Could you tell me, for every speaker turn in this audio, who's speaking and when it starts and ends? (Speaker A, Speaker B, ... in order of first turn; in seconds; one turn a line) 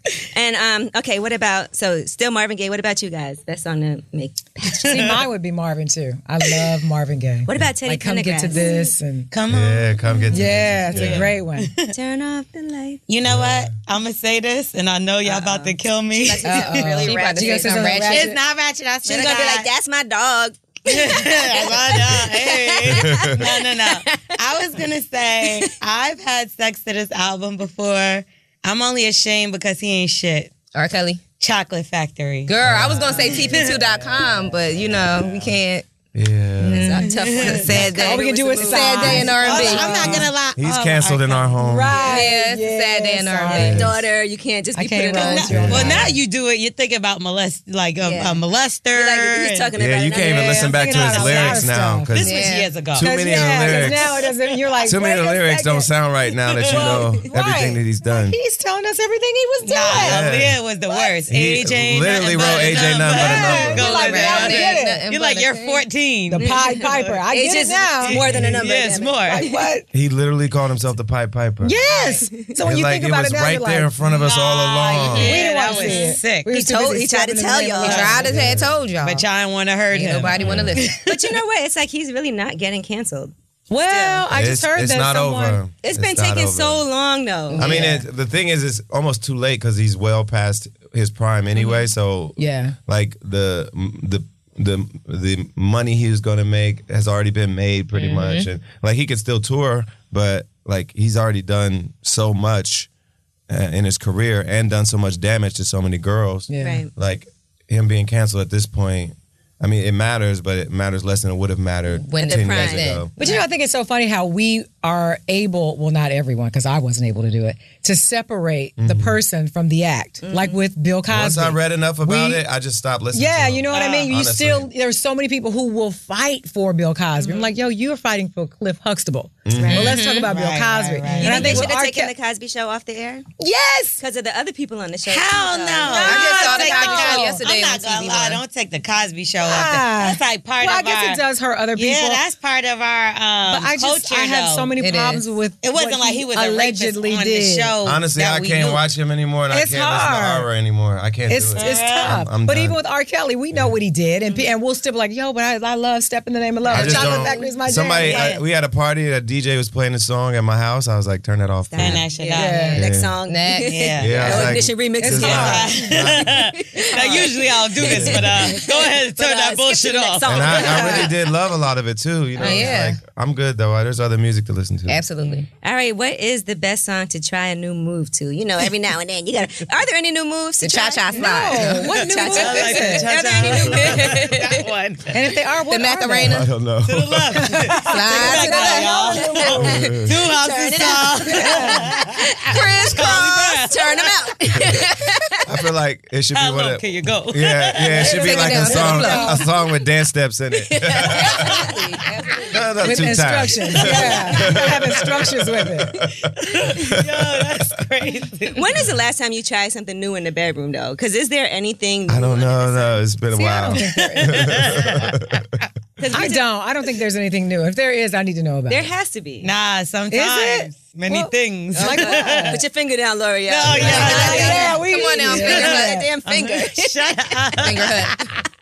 Speaker A: 0.3-5.2
Speaker B: 4.7-5.1
Speaker C: 4.8-9.3
Speaker A: 7.5-8.9
Speaker B: 9.3-11.9
Speaker D: 9.5-11.3
Speaker C: 10.3-11.7
Speaker A: 11.9-13.0
Speaker B: 13.1-16.9
Speaker D: 13.3-13.7
Speaker A: 15.2-18.0
Speaker E: 16.4-18.3
Speaker C: 16.4-18.4
Speaker B: 18.1-19.7
Speaker A: 19.1-24.4
Speaker B: 20.9-30.6
Speaker D: 22.9-23.4
Speaker E: 30.7-31.2
Speaker B: 31.4-32.5
Speaker E: 32.5-35.9
Speaker D: 32.6-33.3
Speaker B: 33.2-33.8
Speaker D: 36.1-37.0
Speaker E: 36.6-40.2
Speaker A: 36.7-40.3
Speaker B: 37.0-37.8
Speaker D: 37.6-37.9
Speaker C: 37.9-40.3
Speaker B: 39.2-41.6
Speaker D: 40.5-42.1
Speaker C: 41.6-43.8
Speaker E: 42.0-44.0
Speaker D: 43.5-43.9
Speaker A: 43.6-46.1
Speaker C: 44.8-46.1
Speaker B: 45.1-49.7
Speaker D: 45.5-46.1
Speaker A: 48.0-48.4
Speaker A: 48.9-51.7
Speaker D: 49.8-54.2
Speaker C: 50.2-52.2
Speaker B: 52.1-53.1
Speaker E: 52.2-52.7
Speaker C: 53.0-55.9
Speaker A: 53.5-53.9
Speaker D: 54.8-58.4
Speaker B: 56.5-57.0
Speaker C: 56.7-60.3
Speaker A: 56.8-57.2
Speaker B: 59.6-67.2
Speaker D: 59.9-60.6
Speaker D: 61.3-63.9
Speaker C: 63.1-65.0
Speaker E: 63.6-65.8
Speaker C: 66.3-68.2
Speaker A: 66.4-66.7
Speaker A: 67.3-69.7
Speaker B: 68.0-69.5
Speaker D: 68.3-68.5
Speaker C: 69.3-69.9
Speaker D: 69.9-71.8
Speaker C: 71.6-74.0
Speaker A: 71.9-72.5
Speaker D: 72.6-75.4
Speaker B: 74.0-76.5
Speaker C: 75.2-78.3
Speaker A: 75.4-78.3
Speaker E: 77.8-79.3
Speaker B: 77.8-78.2
Speaker D: 78.2-78.8
Speaker B: 79.0-81.4
Speaker E: 79.9-80.9
Speaker D: 80.4-80.8
Speaker A: 81.0-83.3
Speaker C: 83.7-85.6
Speaker A: 83.9-84.3
Speaker D: 84.3-86.8
Speaker A: 85.8-87.8
Speaker E: 87.5-87.9
Speaker D: 87.6-102.9
Speaker C: 87.6-88.0
Speaker C: 92.4-92.8
Speaker E: 97.9-98.5
Speaker D: 103.5-113.1
Speaker C: 106.5-106.8
Speaker A: 106.6-106.9
Speaker E: 112.0-113.4
Speaker A: 112.2-113.3
Speaker C: 113.2-122.4
Speaker D: 118.8-119.2
Speaker A: 120.2-120.6
Speaker D: 121.1-124.7
Speaker C: 123.1-132.1
Speaker B: 123.7-124.1
Speaker A: 127.2-127.5
Speaker D: 129.4-130.0
Speaker A: 129.6-129.9
Speaker E: 129.7-130.3
Speaker B: 130.3-131.7
Speaker A: 131.2-133.2
Speaker C: 133.4-134.0
Speaker A: 134.0-137.0
Speaker B: 135.1-141.2
Speaker C: 135.8-137.4
Speaker E: 136.0-138.4
Speaker C: 139.4-142.2
Speaker B: 141.8-144.7
Speaker C: 143.5-147.7
Speaker E: 144.8-145.3
Speaker B: 145.6-148.8
Speaker D: 147.8-152.8
Speaker C: 149.5-150.5
Speaker C: 151.3-158.3
Speaker B: 151.6-152.2
Speaker D: 156.7-162.1
Speaker A: 156.7-157.4
Speaker B: 158.0-158.4
Speaker A: 161.7-171.1
Speaker B: 161.8-162.8
Speaker C: 162.3-162.9
Speaker D: 162.7-163.1
Speaker E: 163.3-163.8
Speaker B: 163.6-164.6
Speaker D: 164.0-166.5
Speaker C: 165.0-165.8
Speaker B: 165.1-171.1
Speaker D: 167.8-168.3
Speaker D: 170.2-175.0
Speaker E: 172.4-173.0
Speaker E: 174.9-175.5
Speaker A: 175.6-184.3
Speaker E: 180.6-182.6
Speaker C: 181.1-183.1
Speaker B: 182.2-185.2
Speaker E: 183.4-184.6
Speaker C: 185.1-186.4
Speaker E: 185.7-186.5
Speaker D: 186.2-187.6
Speaker B: 186.8-194.1
Speaker C: 187.4-189.8
Speaker E: 187.8-192.8
Speaker D: 189.5-190.1
Speaker C: 191.3-191.9
Speaker A: 192.4-195.1
Speaker E: 194.5-195.3
Speaker D: 195.5-201.5
Speaker B: 196.3-199.0
Speaker E: 198.0-199.4
Speaker C: 198.2-199.5
Speaker E: 200.7-203.2
Speaker B: 201.1-201.6
Speaker D: 202.5-207.8
Speaker C: 202.8-205.9
Speaker B: 203.8-204.5
Speaker A: 203.9-204.2
Speaker B: 206.4-208.7
Speaker A: 208.5-213.1
Speaker D: 212.1-215.5
Speaker C: 213.3-214.5
Speaker B: 213.8-215.2
Speaker A: 216.0-216.4
Speaker C: 216.1-218.9
Speaker A: 218.7-219.5
Speaker B: 219.4-222.6
Speaker C: 220.1-222.6
Speaker A: 221.8-227.7
Speaker B: 223.5-228.4
Speaker C: 223.7-226.1
Speaker E: 223.8-226.1
Speaker E: 227.6-228.2